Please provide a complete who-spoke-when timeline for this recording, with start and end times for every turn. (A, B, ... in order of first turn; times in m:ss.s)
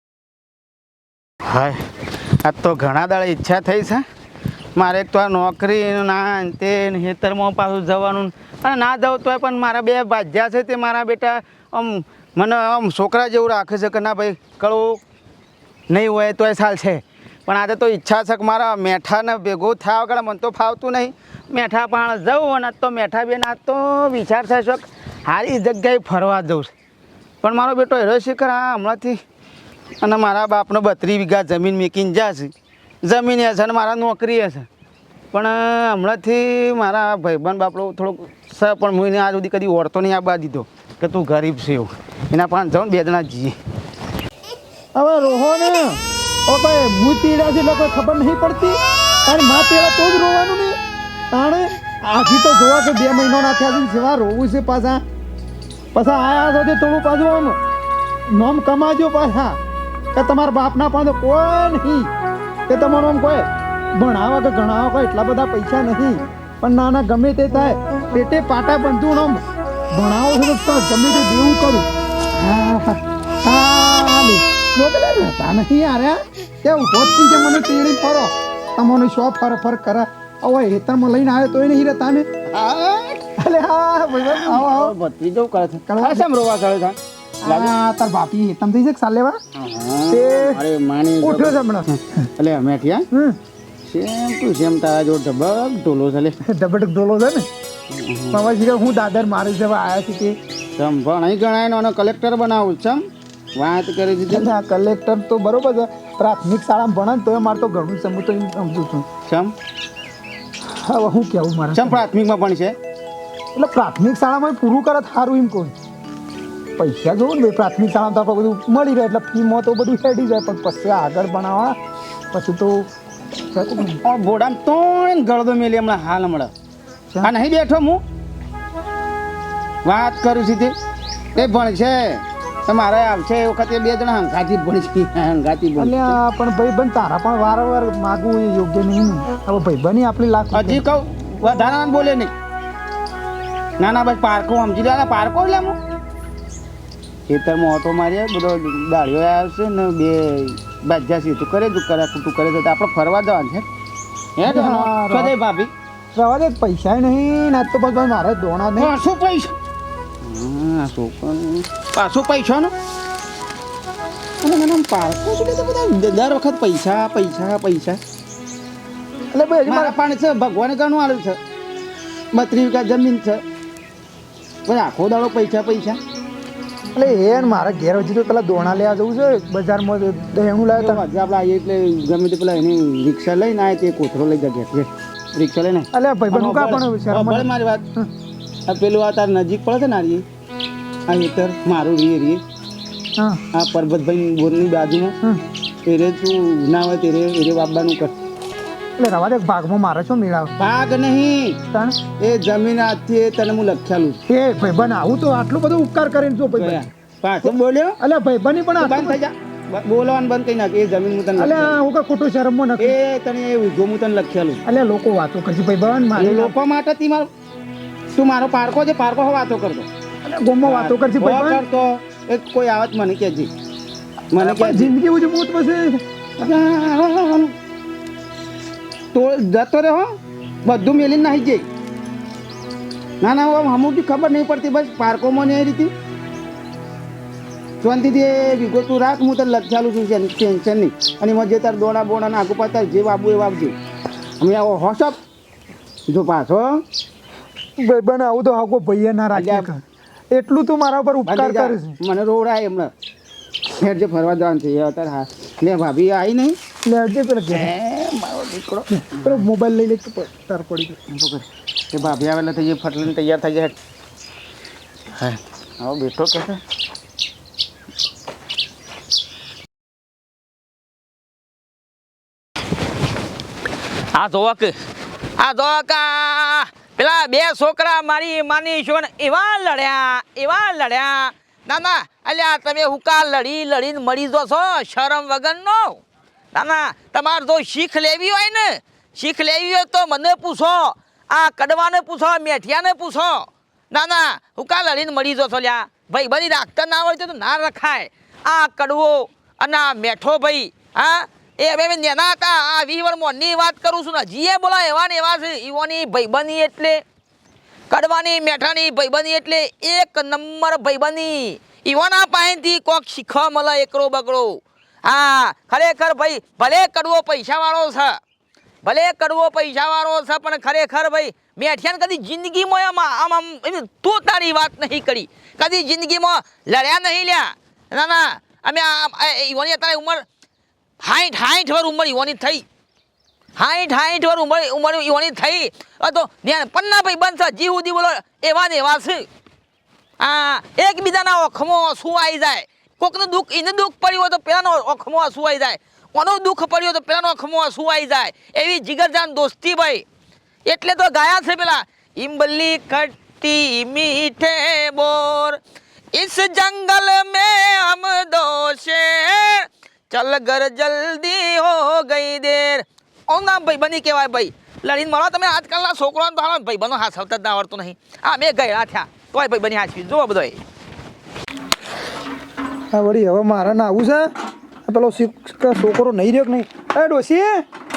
0:01.4-0:01.8 A
0:02.4-0:04.0 A
0:04.8-0:15.0 A
0:15.9-0:26.7 A
0:27.4-0:29.2 A
0:30.0-0:32.5 A
0:33.0-0:34.7 A
0:35.3-0:43.5 A
0:45.0-0:50.8 B
0:51.3-0:55.0 B
0:55.9-0:57.6 B
0:58.3-0:59.6 B
1:00.1-1:02.1 B
1:02.7-1:22.3 B
1:22.5-1:23.2 A
1:23.4-1:24.9 B
1:24.2-1:27.8 A
1:25.9-1:26.3 B
1:27.4-1:29.4 B
1:29.6-1:33.1 A
1:30.1-1:30.6 B
1:31.2-1:32.3 B
1:33.1-1:33.4 B
1:33.9-1:36.4 A
1:36.4-1:37.5 B
1:37.9-1:38.4 A
1:38.3-1:40.4 B
1:40.8-1:43.0 A
1:43.6-1:44.5 A
1:44.3-1:49.1 B
1:49.3-1:49.5 A
1:50.8-1:52.0 B
1:51.7-1:52.8 A
1:53.6-1:55.8 B
1:56.8-2:01.8 B
2:02.3-2:02.9 B
2:03.5-2:04.0 B
2:04.0-2:06.5 A
2:07.2-2:08.0 A
2:09.8-2:10.7 A
2:11.3-2:16.2 A
2:15.8-2:20.8 B
2:20.5-2:22.3 A
2:23.8-2:25.8 A
2:27.3-2:33.7 A
2:34.4-2:35.7 A
2:34.4-2:35.3 B
2:36.1-2:38.9 B
2:38.8-2:39.5 A
2:40.2-2:42.7 A
2:44.4-2:48.0 A
2:49.3-2:50.0 B
2:49.7-2:51.4 A
2:52.3-2:53.4 A
2:54.7-2:56.0 A
2:56.9-3:01.0 B
3:00.8-3:07.8 A
3:05.9-3:08.1 B
3:08.7-3:10.2 A
3:11.1-3:12.4 A
3:13.2-3:13.4 B
3:13.5-3:15.2 A
3:15.8-3:18.1 A
3:19.0-3:20.5 B
3:20.6-3:21.6 A
3:21.7-3:22.0 B
3:22.2-3:24.2 A
3:24.3-3:26.9 B
3:26.5-3:28.0 A
3:27.4-3:29.2 B
3:28.8-3:31.8 A
3:31.3-3:33.0 B
3:32.8-3:34.6 A
3:34.6-3:36.5 B
3:36.2-3:37.3 A
3:38.2-3:39.9 A
3:40.2-3:41.6 B
3:40.6-3:43.5 A
3:44.3-3:44.9 A
3:44.4-3:46.0 B
3:46.4-3:47.5 A
3:49.1-3:50.1 A
3:50.6-3:51.7 A
3:53.2-3:55.9 A
3:57.8-4:03.8 A
4:04.4-4:05.2 A
4:06.1-4:06.8 A
4:07.8-4:09.8 B
4:09.3-4:09.7 A
4:10.3-4:12.0 B
4:11.2-4:12.9 A
4:13.8-4:16.6 A
4:16.9-4:17.7 B
4:17.5-4:19.4 A
4:19.0-4:21.0 B
4:21.1-4:23.8 A
4:25.2-4:26.6 A
4:34.1-4:34.7 C
4:35.4-4:46.0 C
4:46.5-5:07.0 C
5:07.9-5:18.2 C
5:18.8-5:30.2 C
5:31.0-5:32.6 C
5:33.6-5:39.2 C
5:40.2-5:50.0 C
5:50.7-5:55.6 C
5:56.1-6:10.6 C
6:12.9-6:14.3 B
6:14.9-6:17.6 B